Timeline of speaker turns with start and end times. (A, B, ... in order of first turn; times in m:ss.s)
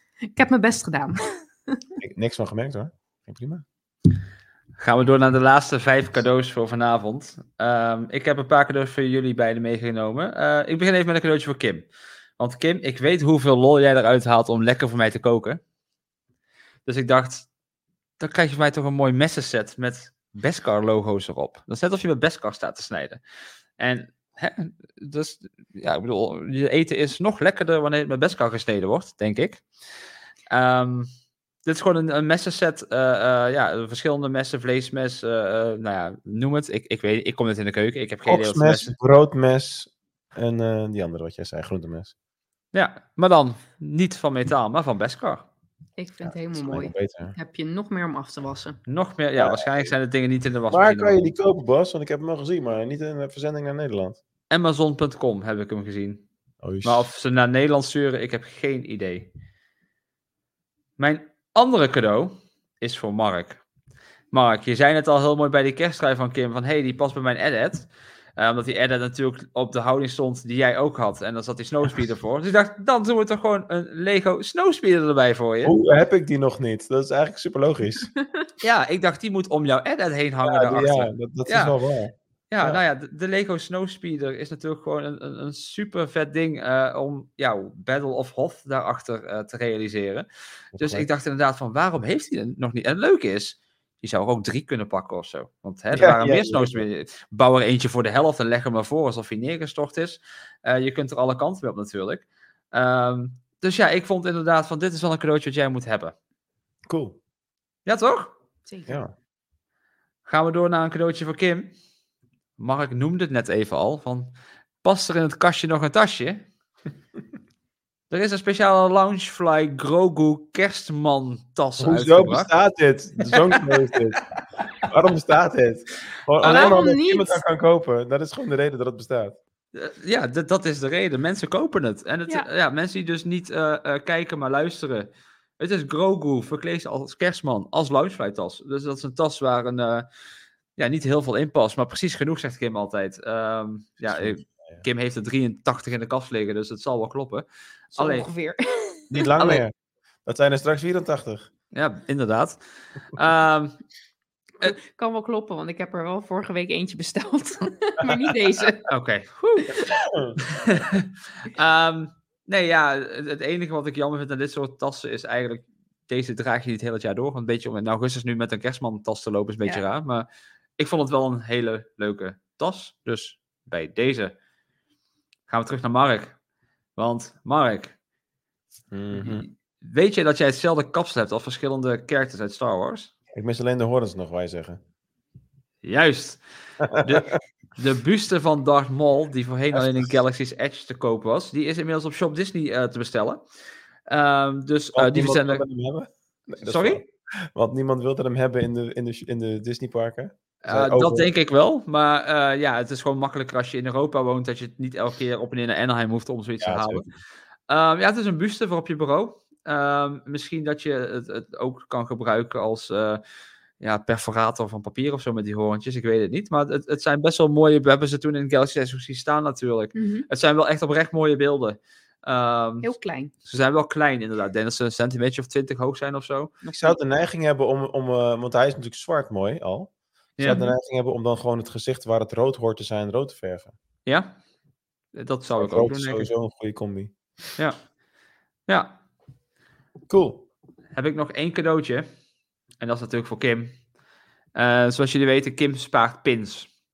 0:00.2-0:01.8 A
0:02.0-0:03.6 B
0:04.8-0:11.8 C
0:12.4-0:15.6 C
0:16.8-0:17.5 C
0:18.2-0:23.2 C
0:23.8-0:29.6 C
0:30.5-0:31.1 C
0:31.6-0:38.9 C
0:38.2-0:42.1 B
0:42.7-0:45.4 C
0:46.0-0:48.8 A
0:46.2-0:47.3 B
0:48.9-0:51.3 C
0:49.4-0:49.9 B
0:50.7-0:54.2 B
0:54.5-0:56.2 C
0:56.6-0:57.0 B
0:56.8-0:59.3 C
1:01.0-1:03.6 C
1:04.3-1:15.7 C
1:15.6-1:18.1 B
1:18.6-1:21.7 C
1:20.4-1:22.8 B
1:22.5-1:46.1 C
1:30.7-1:31.0 B
1:35.9-1:36.8 B
1:46.9-1:47.2 B
1:47.8-1:48.3 C
1:48.7-1:49.0 A
1:48.9-1:49.1 B
1:50.2-1:51.7 C
1:52.6-1:56.5 C
1:58.1-2:02.5 C
2:01.8-2:04.2 B
2:03.3-2:03.8 C
2:04.8-2:09.4 B
2:06.4-2:06.8 C
2:06.4-2:07.4 A
2:09.7-2:20.1 C
2:20.8-2:28.3 C
2:24.0-2:24.8 B
2:28.0-2:29.1 A
2:29.1-2:29.7 B
2:30.2-2:31.5 B
2:31.7-2:32.6 C
2:33.1-2:33.8 C
2:34.6-2:38.8 A
2:38.9-2:39.8 C
2:39.9-2:40.4 B
2:40.4-2:50.3 C
2:50.8-2:54.3 C
2:55.5-2:56.4 C
2:57.0-2:57.9 C
2:58.9-2:59.4 B
2:59.1-3:03.1 C
3:03.3-3:04.8 B
3:05.8-3:06.4 C
3:06.8-3:07.3 B
3:07.0-3:13.4 C
3:09.7-3:10.1 B
3:14.1-3:15.6 C
3:14.9-3:21.3 B
3:16.6-3:17.0 C
3:20.6-3:27.0 C
3:26.6-3:27.0 B
3:27.7-3:33.2 C
3:33.8-3:42.9 C
3:39.9-3:40.3 A
3:42.8-3:43.3 A
3:43.4-3:46.5 C
3:46.6-3:47.0 A
3:46.8-3:53.7 B
3:50.4-3:50.6 C
3:54.0-3:54.4 C
3:55.1-3:56.3 C
3:55.5-3:57.1 B
3:58.7-3:59.0 C
4:00.1-4:00.5 B
4:00.9-4:02.1 C
4:02.8-4:03.8 C
4:04.5-4:06.7 C